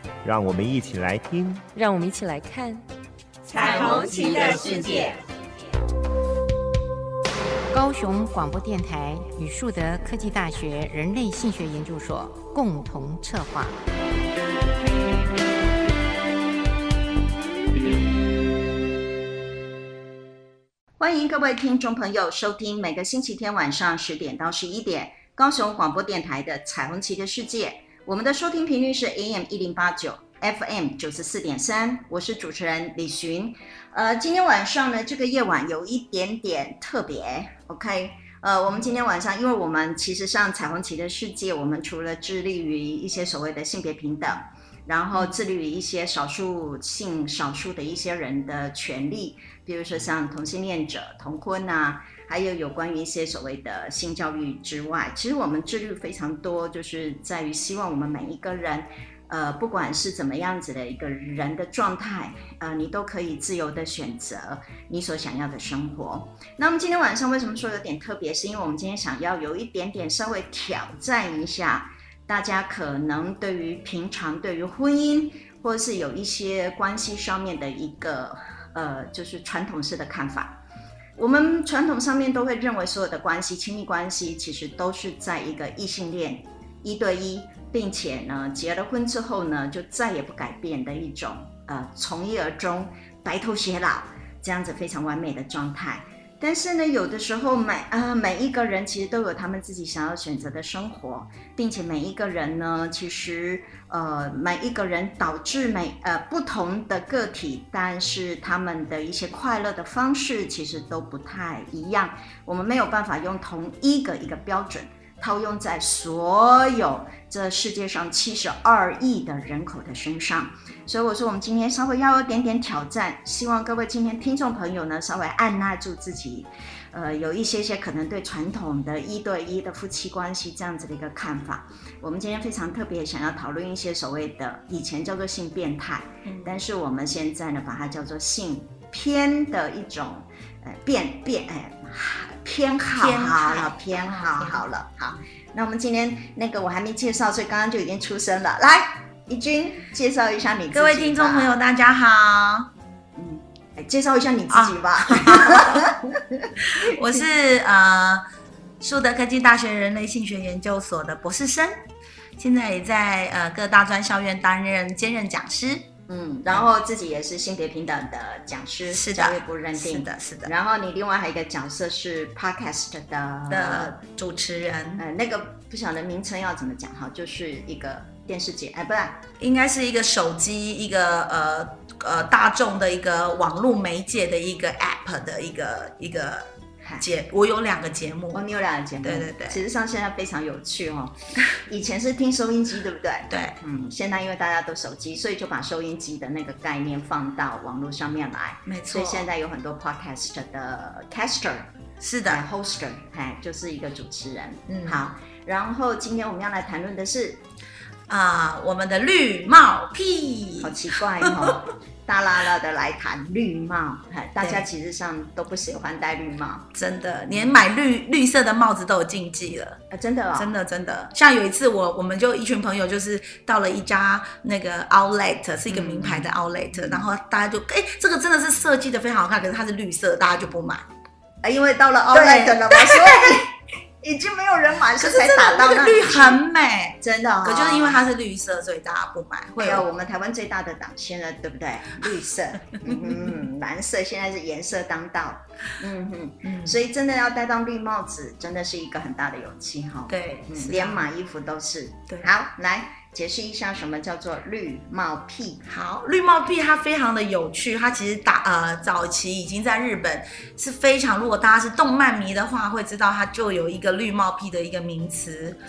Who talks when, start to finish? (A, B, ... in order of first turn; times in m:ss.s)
0:00.2-0:01.6 A
0:01.7-0:02.8 B
0:03.6-0:04.6 B
0:03.6-0:04.8 A
0:03.8-0:04.8 C
0:07.7-0:13.8 C
0:21.0-1:20.6 D
1:21.2-2:31.6 D
2:16.2-2:16.6 E
2:22.9-2:24.7 E
2:30.7-2:32.7 E
2:33.2-2:36.9 D
2:34.5-2:35.9 E
2:36.6-2:38.2 E
2:38.8-2:41.8 E
2:42.4-2:45.9 E
2:46.1-2:53.9 D
2:48.9-2:50.5 E
2:53.5-2:55.0 E
2:55.0-2:59.2 D
2:59.4-3:08.4 E
3:08.3-3:21.7 D
3:09.0-3:09.6 E
3:13.3-3:13.6 E
3:18.7-3:19.3 E
3:22.0-3:22.4 E
3:22.2-3:27.4 D
3:24.7-3:25.0 E
3:28.1-3:31.5 E
3:30.6-3:36.7 D
3:34.4-3:34.6 E
3:36.7-3:39.8 E
3:39.9-3:40.5 D
3:40.3-3:50.9 E
3:45.7-3:47.0 D
3:51.4-3:56.4 D
3:52.1-3:53.3 E
3:55.0-3:59.8 E
3:57.0-3:58.0 D
3:59.6-4:15.6 D
4:02.8-4:03.4 E
4:06.4-4:06.8 E
4:10.1-4:11.0 E
4:15.7-4:25.6 E